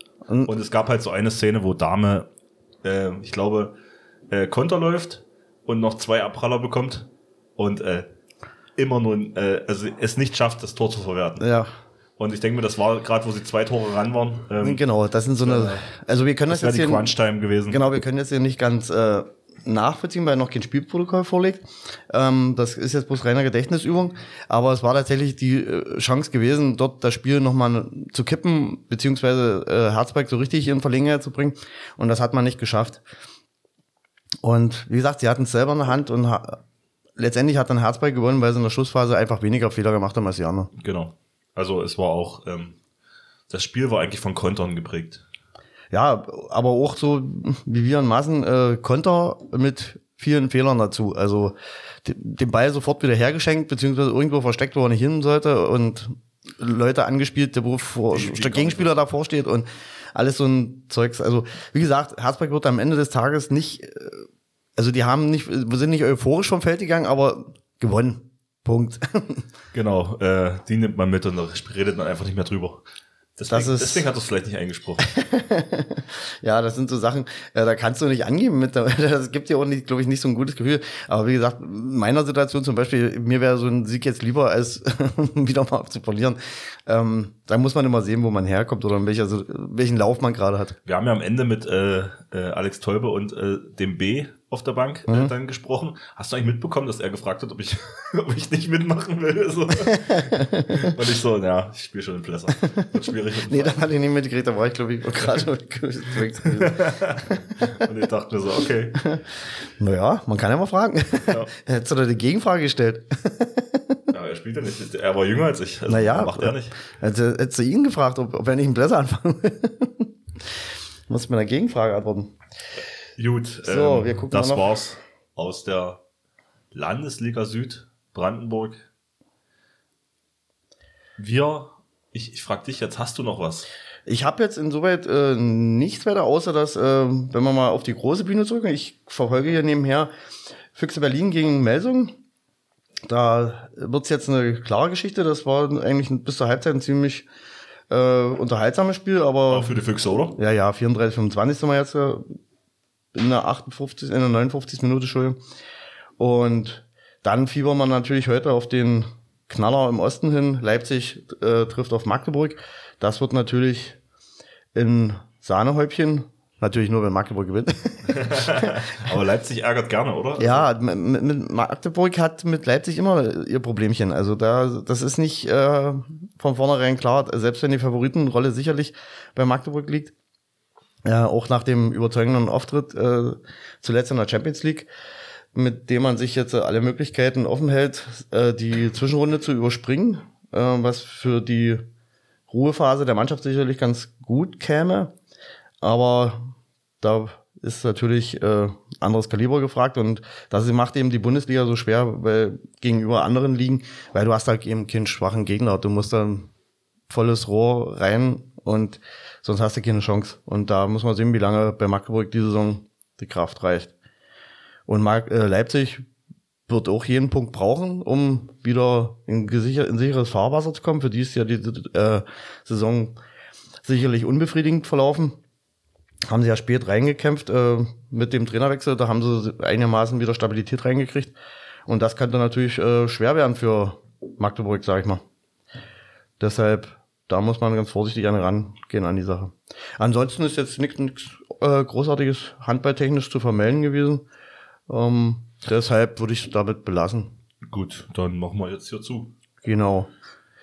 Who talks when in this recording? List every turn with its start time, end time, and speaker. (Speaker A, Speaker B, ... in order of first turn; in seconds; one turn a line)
Speaker A: 0.3-0.5
Speaker B: 0.5-2.3
Speaker B: 2.8-3.8
Speaker B: 4.3-8.1
Speaker B: 8.8-11.4
Speaker A: 11.4-11.7
Speaker B: 12.2-14.8
Speaker A: 14.6-17.1
Speaker B: 15.4-15.8
Speaker B: 16.5-17.8
Speaker A: 17.7-33.0
Speaker A: 34.4-36.6
Speaker A: 37.2-40.7
Speaker B: 40.8-42.8
Speaker B: 43.5-45.2
Speaker A: 45.9-69.5
Speaker B: 58.1-59.0
Speaker B: 69.7-72.8
Speaker B: 73.3-75.1
Speaker A: 73.5-74.0
Speaker A: 75.0-90.8
Speaker B: 90.8-103.8
Speaker A: 95.1-95.3
Speaker A: 99.9-100.9
Speaker A: 102.5-102.9
Speaker A: 103.5-107.8
Speaker B: 106.5-109.0
Speaker A: 109.8-114.0
Speaker B: 111.2-111.5
Speaker B: 114.1-116.8
Speaker A: 115.9-120.1
Speaker A: 121.1-122.3
Speaker B: 123.2-126.0
Speaker A: 123.6-124.7
Speaker B: 126.7-128.8
Speaker B: 131.2-133.7
Speaker A: 134.1-140.1
Speaker A: 140.7-142.2
Speaker A: 143.0-147.2
Speaker A: 147.9-149.8
Speaker B: 149.5-150.4
Speaker A: 150.3-152.3
Speaker A: 153.1-155.4
Speaker A: 156.2-164.0
Speaker A: 164.7-169.1
Speaker B: 168.1-170.7
Speaker A: 170.4-180.1
Speaker A: 181.0-184.9
Speaker A: 185.5-191.9
Speaker A: 192.5-195.1
Speaker A: 195.8-206.5
Speaker A: 207.1-213.9
Speaker A: 214.9-216.1
Speaker A: 216.7-223.2
Speaker A: 223.8-225.4
Speaker A: 226.3-231.3
Speaker A: 231.9-235.2
Speaker A: 236.4-244.2
Speaker A: 244.9-247.3
Speaker B: 247.6-249.3
Speaker A: 249.6-250.1